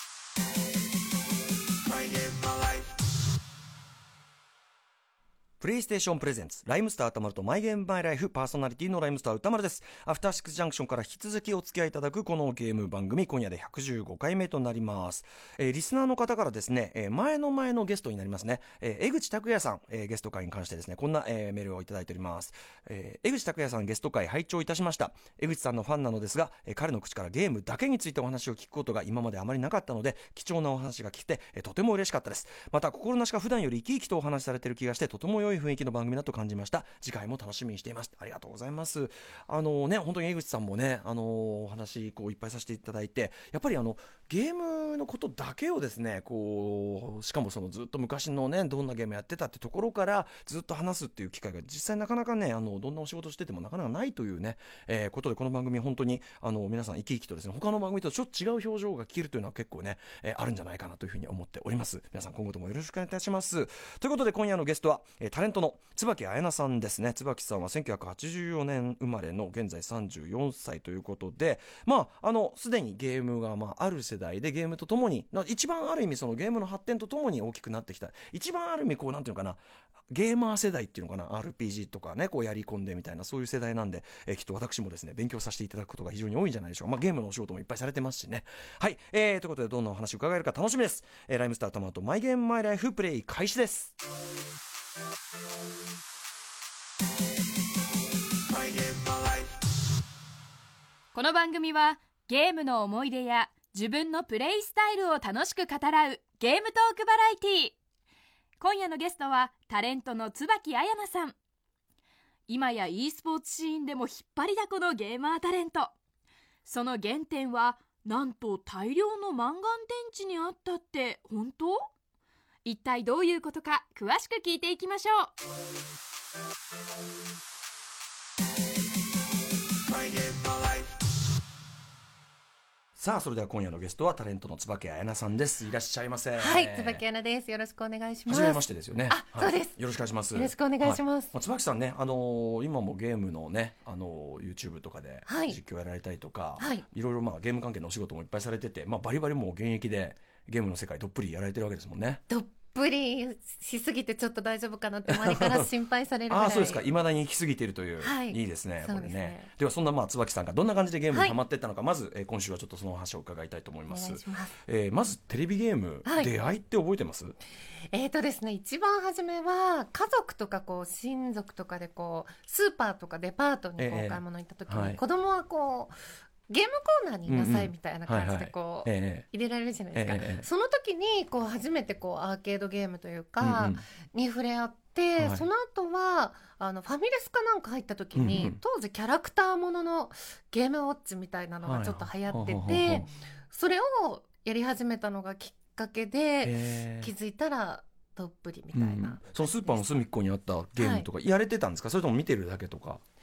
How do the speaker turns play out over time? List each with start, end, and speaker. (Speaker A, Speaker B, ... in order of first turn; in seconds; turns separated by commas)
Speaker A: 5.6-93.9, Speaker B: 101.1-107.8, Speaker B: 108.6-111.3, Speaker B: 112.5-115.9, Speaker B: 116.6-121.9, Speaker B: 122.6-125.3, Speaker A: 133.0-137.0, Speaker C: 136.4-139.7, Speaker A: 138.3-152.2, Speaker C: 140.3-141.3, Speaker C: 145.3-145.6, Speaker C: 146.6-146.8, Speaker C: 152.3-156.9, Speaker A: 155.1-155.7, Speaker A: 156.3-167.3, Speaker C: 158.0-159.5, Speaker C: 161.1-161.3, Speaker C: 163.9-164.5, Speaker C: 166.0-166.3, Speaker C: 167.9-175.9, Speaker A: 173.8-175.0, Speaker C: 176.5-200.0, Speaker A: 177.3-179.2, Speaker A: 179.9-180.4, Speaker A: 183.4-183.8, Speaker A: 185.2-185.4, Speaker A: 188.1-188.6, Speaker A: 191.6-193.1, Speaker A: 196.4-197.1, Speaker A: 198.7-203.0, Speaker C: 200.8-201.1